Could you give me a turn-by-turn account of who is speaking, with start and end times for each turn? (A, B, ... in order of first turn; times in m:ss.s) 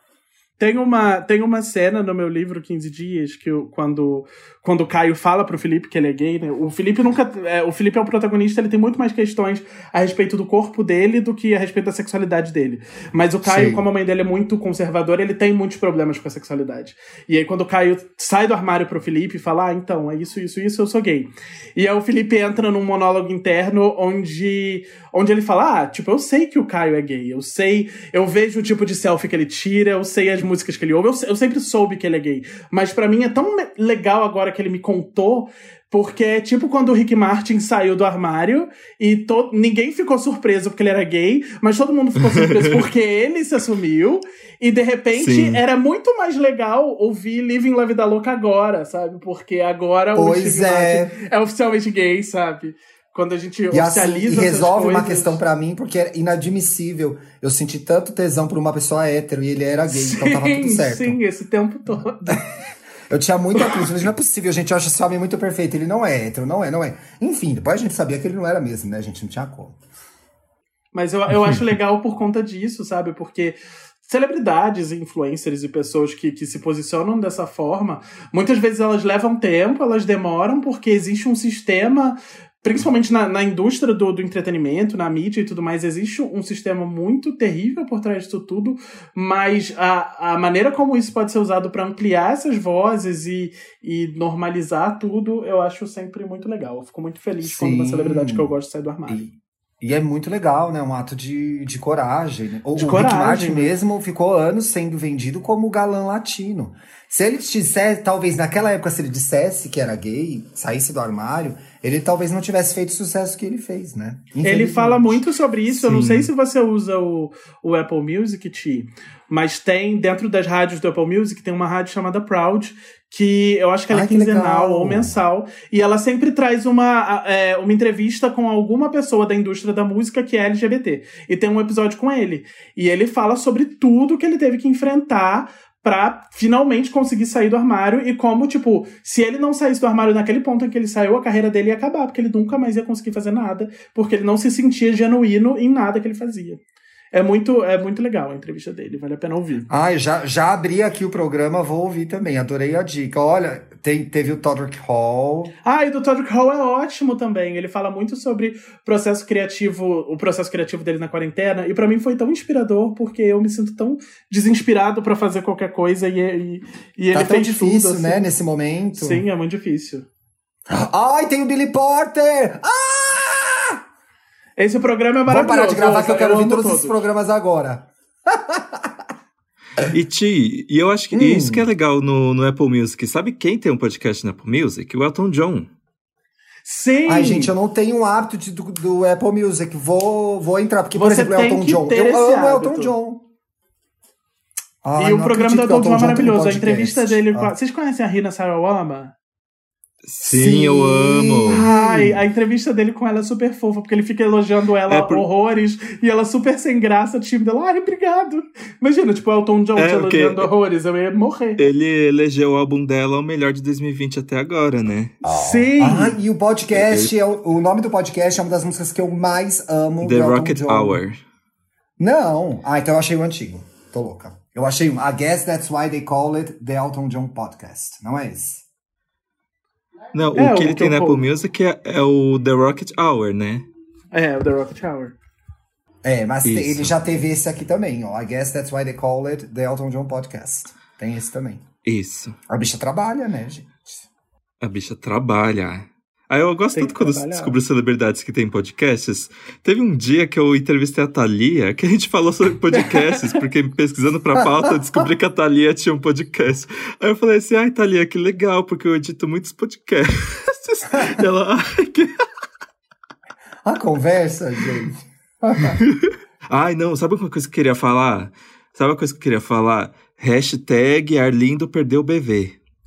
0:00.6-0:55.4 A
0:13.4-0:13.9 B
0:45.2-0:45.6 C
0:50.2-0:51.2 B
0:53.7-1:01.2 B
0:59.9-1:02.6 A
1:03.1-1:09.8 B
1:10.9-1:39.2 A
1:37.4-1:38.5 B
1:39.1-1:55.2 B
1:42.8-1:43.7 A
1:54.4-2:26.6 A
1:55.7-1:56.3 C
2:03.9-2:05.2 B
2:27.1-2:29.7 A
2:29.7-2:35.5 B
2:35.6-2:48.3 A
2:47.1-2:49.2 B
2:48.9-2:50.1 A
2:50.7-2:53.8 B
2:54.6-2:57.0 A
2:55.3-2:59.0 B
2:59.9-3:05.7 C
3:01.1-3:01.7 B
3:06.6-3:07.5 A
3:07.1-3:13.3 B
3:10.9-3:12.9 A
3:14.8-3:17.5 B
3:15.0-3:19.1 A
3:20.0-3:21.7 C
3:20.2-3:22.2 B
3:21.5-3:31.6 A
3:24.9-3:25.2 C
3:29.8-3:30.5 C
3:31.6-3:35.2 C
3:35.2-3:41.0 B
3:35.2-3:36.2 A
3:36.7-3:37.1 C
3:40.0-3:41.2 C
3:42.0-3:48.7 B
3:50.1-3:53.7 C
3:50.4-3:51.2 A
3:54.1-3:55.2 A
3:56.0-4:01.7 B
3:56.4-3:57.1 C
4:01.8-4:02.4 C
4:02.5-4:04.0 B
4:04.6-4:22.2 C
4:06.8-4:07.6 A
4:12.7-4:13.3 B
4:14.4-4:15.0 B
4:23.6-4:25.8 B
4:25.8-4:32.6 C